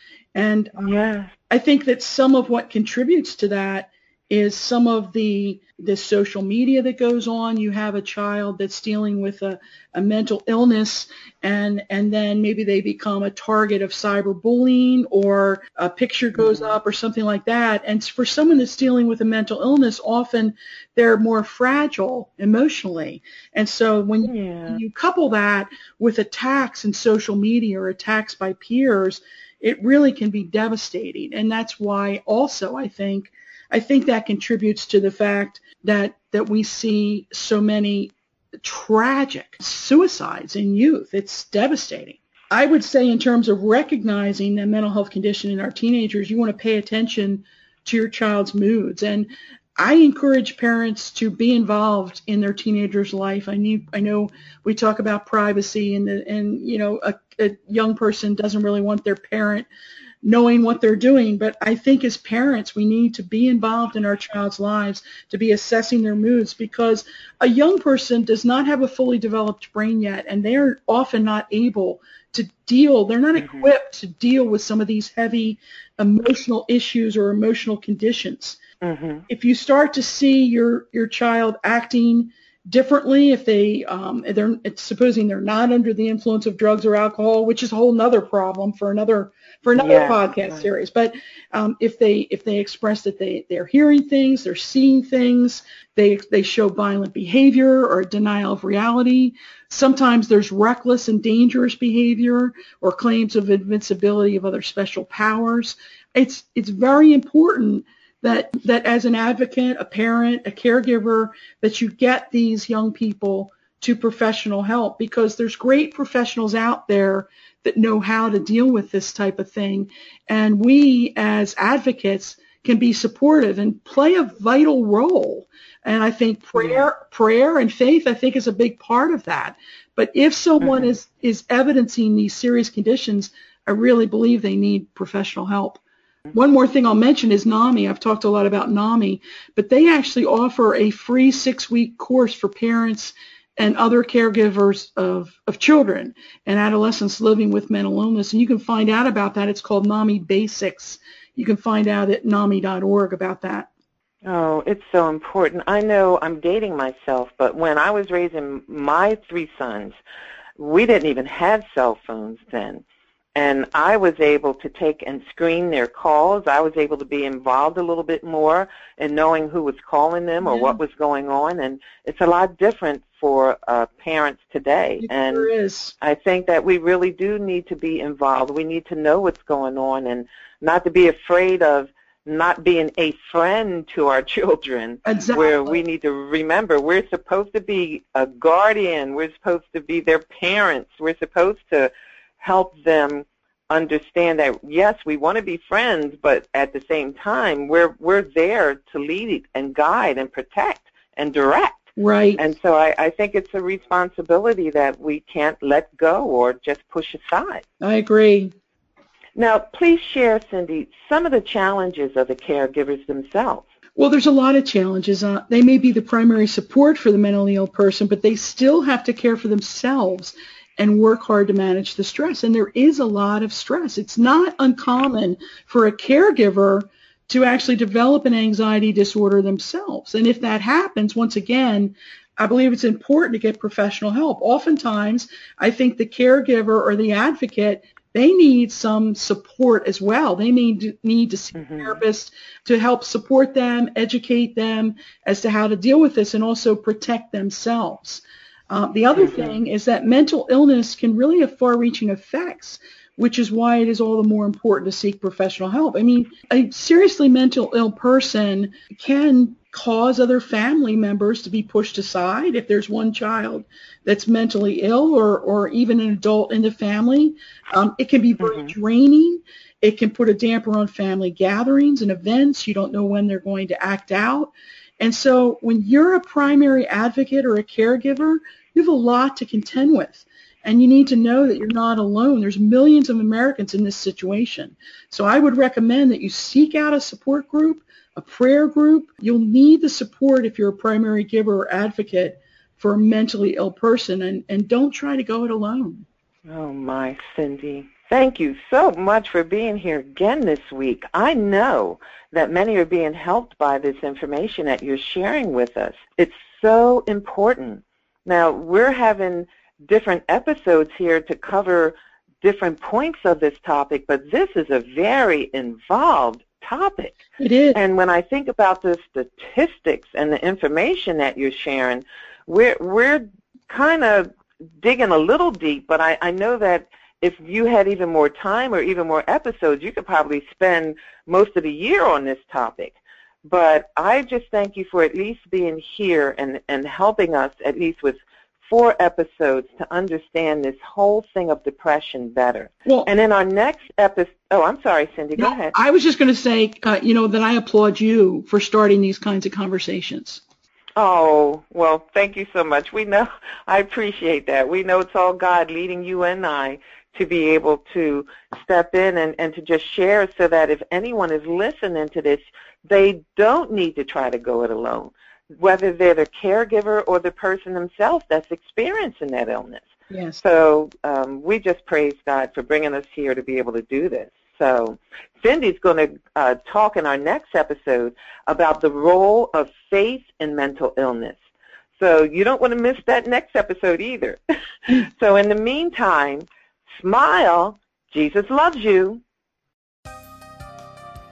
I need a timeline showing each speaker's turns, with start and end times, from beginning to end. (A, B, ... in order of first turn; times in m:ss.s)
0:00.3-0:00.9 A
0:00.8-0:01.3 B
0:01.5-0:59.7 A
0:16.4-0:16.8 B
0:24.2-0:24.8 B
1:00.2-1:18.6 A
1:13.4-1:13.7 B
1:18.8-1:19.2 B
1:19.3-2:15.8 A
1:29.8-1:30.7 B
2:06.6-2:06.8 B
2:10.6-2:10.9 B
2:16.3-2:33.7 A
2:34.2-2:40.0 B
2:40.6-2:42.8 B
2:43.4-3:21.8 B
2:50.4-2:50.8 A
2:55.0-2:55.9 A
3:05.0-3:05.8 A
3:22.0-3:22.4 A
3:22.4-3:27.6 B
3:27.8-3:28.5 A
3:29.4-3:33.6 B
3:34.0-4:56.0 A
4:01.5-4:02.0 B
4:09.1-4:09.6 B
4:28.4-4:28.7 B
4:56.5-5:17.2 B
5:17.4-5:17.8 A
5:17.7-5:45.7 B
5:45.4-5:50.4 A
5:51.0-6:09.9 B
6:10.1-6:10.4 A
6:10.4-6:21.4 B
6:22.0-6:26.4 B
6:27.0-6:29.2 B